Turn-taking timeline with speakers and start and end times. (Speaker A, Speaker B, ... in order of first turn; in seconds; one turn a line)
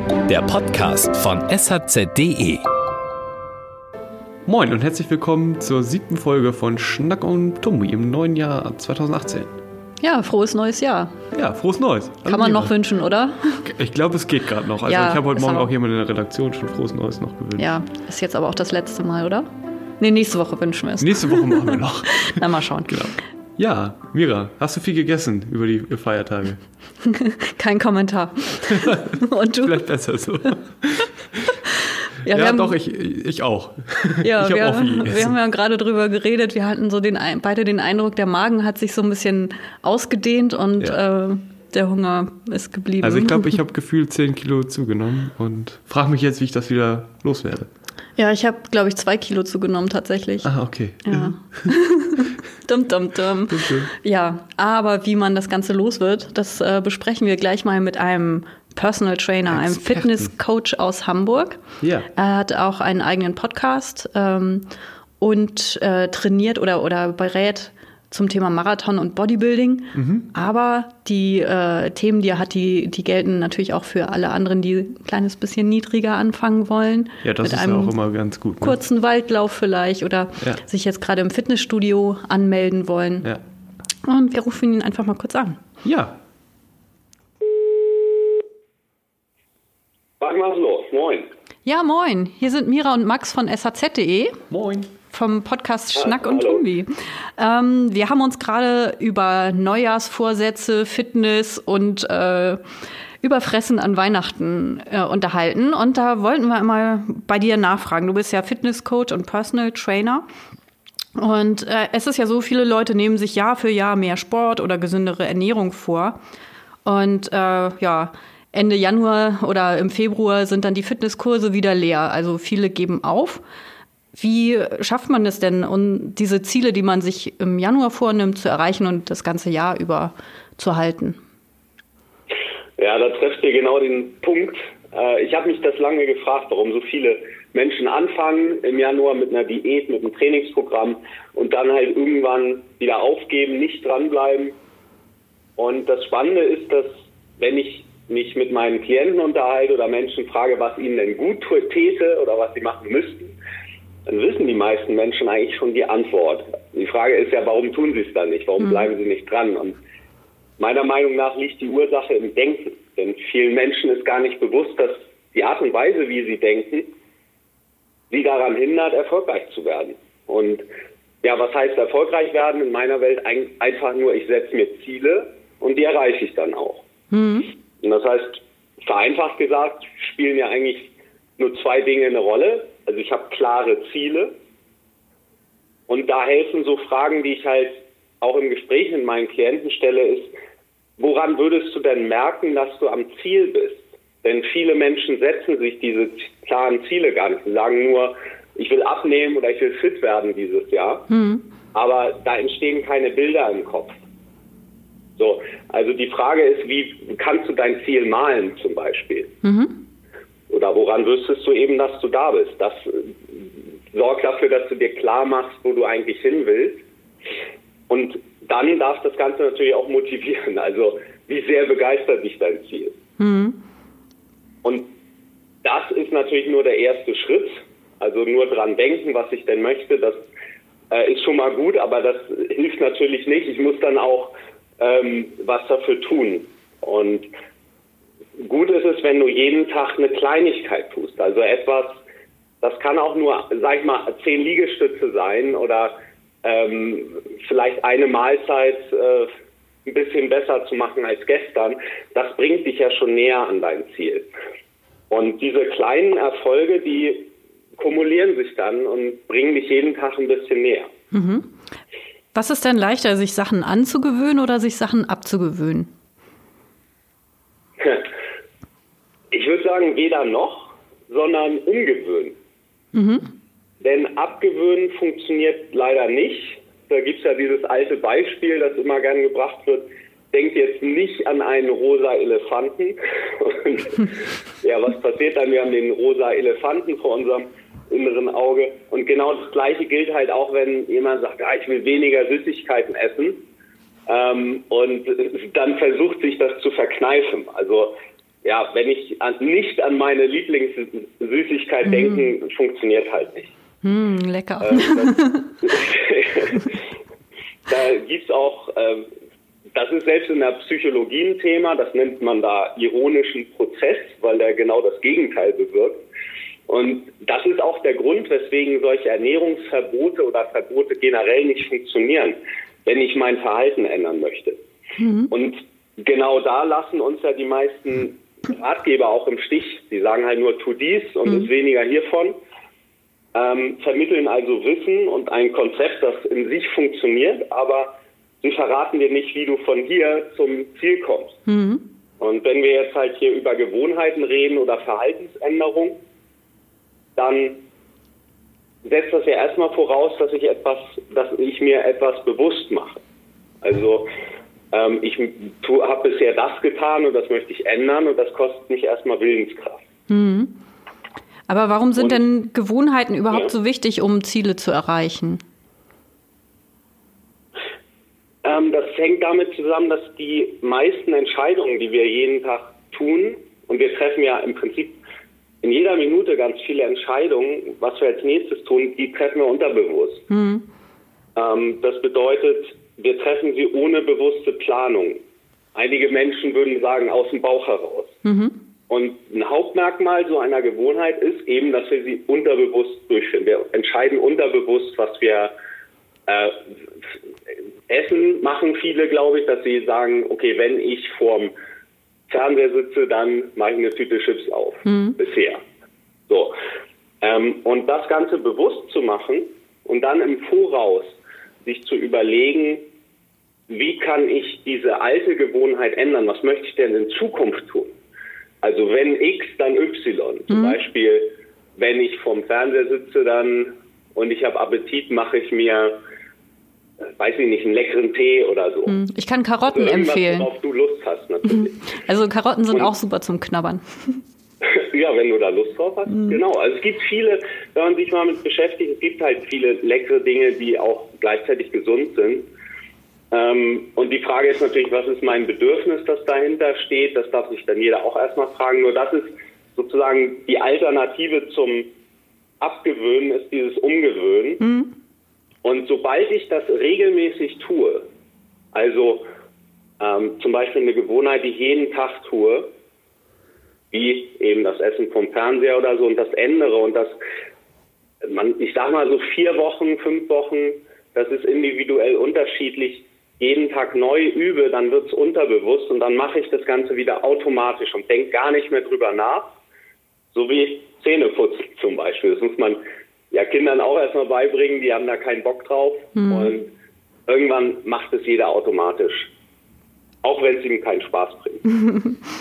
Speaker A: 0.3-2.6
Speaker B: 4.5-9.5
Speaker C: 10.0-11.2
Speaker B: 11.3-12.7
Speaker C: 12.3-13.7
Speaker B: 13.7-17.7
Speaker C: 14.8-15.7
Speaker C: 17.6-19.5
Speaker C: 20.0-23.0
Speaker B: 21.0-26.6
Speaker C: 27.0-29.8
Speaker B: 28.7-31.5
Speaker C: 32.2-32.8
Speaker B: 32.2-35.3
Speaker C: 34.2-43.6
Speaker B: 43.0-47.7
Speaker C: 48.2-61.6
Speaker B: 50.4-51.7
Speaker B: 53.5-53.9
Speaker B: 59.5-60.3
Speaker B: 61.8-62.1
Speaker C: 62.1-64.7
Speaker C: 65.2-78.0
Speaker B: 69.9-70.3
Speaker B: 77.2-78.8
Speaker C: 78.6-83.3
Speaker C: 84.0-85.6
Speaker B: 85.8-86.2
Speaker D: 90.2-91.3
Speaker C: 91.7-94.4
Speaker B: 94.5-94.9
Speaker C: 95.1-102.6
Speaker D: 95.9-96.6
Speaker C: 103.2-110.2
Speaker C: 111.2-116.2
Speaker C: 116.8-123.4
Speaker C: 124.1-131.2
Speaker D: 132.8-144.6
Speaker D: 145.6-153.3
Speaker D: 154.1-159.8
Speaker C: 158.6-158.9
Speaker D: 160.6-166.9
Speaker D: 168.1-170.7
Speaker D: 171.2-176.8
Speaker C: 177.1-177.5
Speaker D: 177.8-184.3
Speaker D: 185.9-190.3
Speaker D: 191.0-201.1
Speaker C: 201.1-201.4
Speaker D: 201.7-203.9
Speaker D: 205.2-209.3
Speaker C: 209.4-209.8
Speaker D: 210.5-216.8
Speaker D: 217.9-223.0
Speaker C: 223.2-223.6
Speaker D: 225.6-230.3
Speaker D: 230.9-237.3
Speaker D: 238.4-242.0
Speaker D: 242.6-249.3
Speaker D: 249.8-254.3
Speaker D: 255.1-260.9
Speaker C: 261.1-261.5
Speaker C: 262.3-265.9
Speaker D: 267.8-268.1
Speaker D: 269.3-272.4
Speaker C: 272.9-273.3
Speaker D: 273.8-284.1
Speaker D: 284.6-293.4
Speaker D: 294.1-303.5
Speaker C: 301.8-302.2
Speaker C: 303.8-305.6
Speaker D: 304.6-306.7
Speaker D: 307.7-309.1
Speaker D: 309.7-316.0
Speaker D: 316.7-324.6
Speaker C: 325.0-325.3
Speaker D: 325.3-332.4
Speaker D: 333.3-341.4
Speaker C: 341.5-341.9
Speaker D: 342.2-346.0
Speaker D: 347.1-347.6
Speaker D: 348.8-353.0
Speaker D: 353.6-354.1
Speaker D: 354.7-359.8
Speaker C: 360.1-360.6
Speaker C: 361.5-365.4
Speaker D: 368.4-375.0
Speaker D: 375.6-380.2
Speaker C: 380.3-380.6
Speaker D: 381.4-385.2
Speaker D: 385.8-388.2
Speaker C: 388.2-388.6
Speaker D: 388.9-395.5
Speaker D: 396.3-396.6
Speaker D: 397.9-401.5
Speaker D: 402.3-405.6
Speaker C: 404.9-405.2
Speaker D: 406.3-406.5
Speaker D: 407.2-412.8
Speaker D: 413.7-417.9
Speaker D: 418.6-426.0
Speaker C: 420.5-420.8
Speaker D: 427.2-429.0
Speaker C: 428.9-430.5
Speaker D: 429.7-431.8
Speaker C: 431.5-434.2
Speaker D: 434.6-442.5
Speaker C: 436.1-436.4
Speaker D: 443.3-451.9
Speaker D: 452.6-454.6
Speaker C: 454.6-454.9
Speaker D: 455.6-458.1
Speaker D: 458.7-459.2
Speaker D: 460.0-462.7
Speaker D: 463.9-467.2
Speaker D: 468.2-479.5
Speaker D: 480.3-482.8
Speaker D: 483.3-486.7
Speaker C: 486.1-486.5
Speaker D: 487.3-489.3
Speaker D: 490.2-491.6
Speaker C: 491.7-492.2